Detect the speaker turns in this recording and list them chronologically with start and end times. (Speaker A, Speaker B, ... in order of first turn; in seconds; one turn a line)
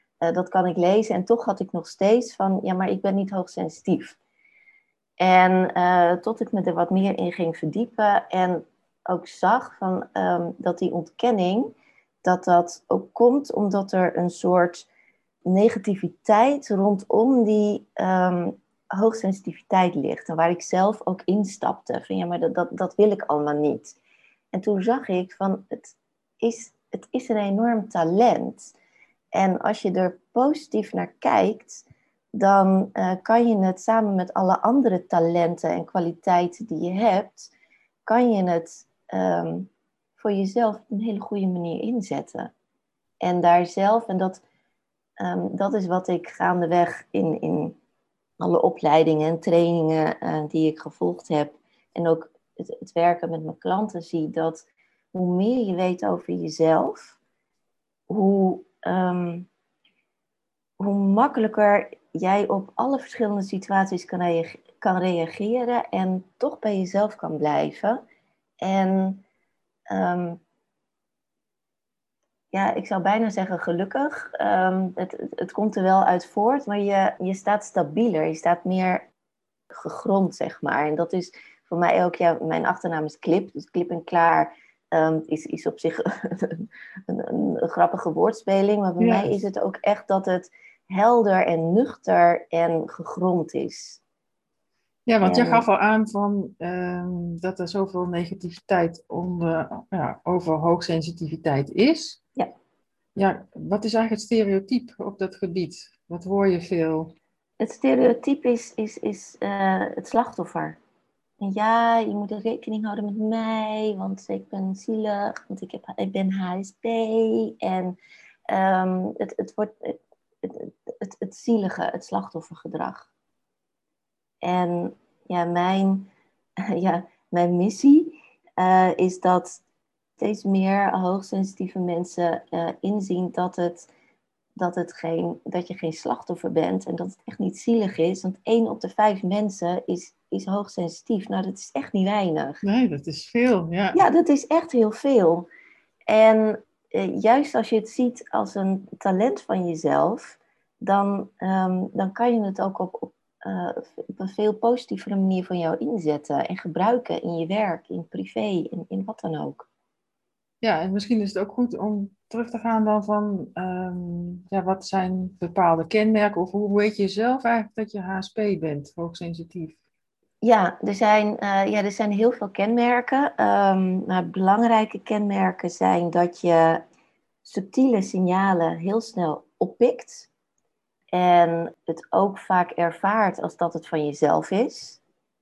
Speaker A: 0.2-4.2
Speaker A: 5.2-11.7
Speaker A: 12.2-14.9
Speaker A: 15.4-24.0
Speaker A: 24.5-28.7
Speaker A: 29.3-37.5
Speaker A: 38.0-42.5
Speaker A: 43.2-44.4
Speaker A: 45.2-47.8
Speaker A: 48.4-57.2
Speaker A: 58.1-59.5
Speaker A: 60.8-68.0
Speaker A: 68.6-69.2
Speaker A: 69.9-70.4
Speaker A: 72.5-79.1
Speaker A: 79.7-94.0
Speaker B: 89.0-89.3
Speaker B: 95.1-102.2
Speaker A: 95.2-95.7
Speaker B: 103.2-107.1
Speaker A: 107.6-110.8
Speaker A: 111.4-118.0
Speaker A: 118.5-123.1
Speaker A: 124.4-126.1
Speaker A: 126.7-129.6
Speaker A: 130.2-133.9
Speaker A: 134.6-142.6
Speaker B: 142.6-144.0
Speaker A: 143.9-145.5
Speaker A: 146.1-159.7
Speaker B: 160.6-169.8
Speaker A: 170.4-176.8
Speaker A: 177.4-180.3
Speaker A: 181.1-185.0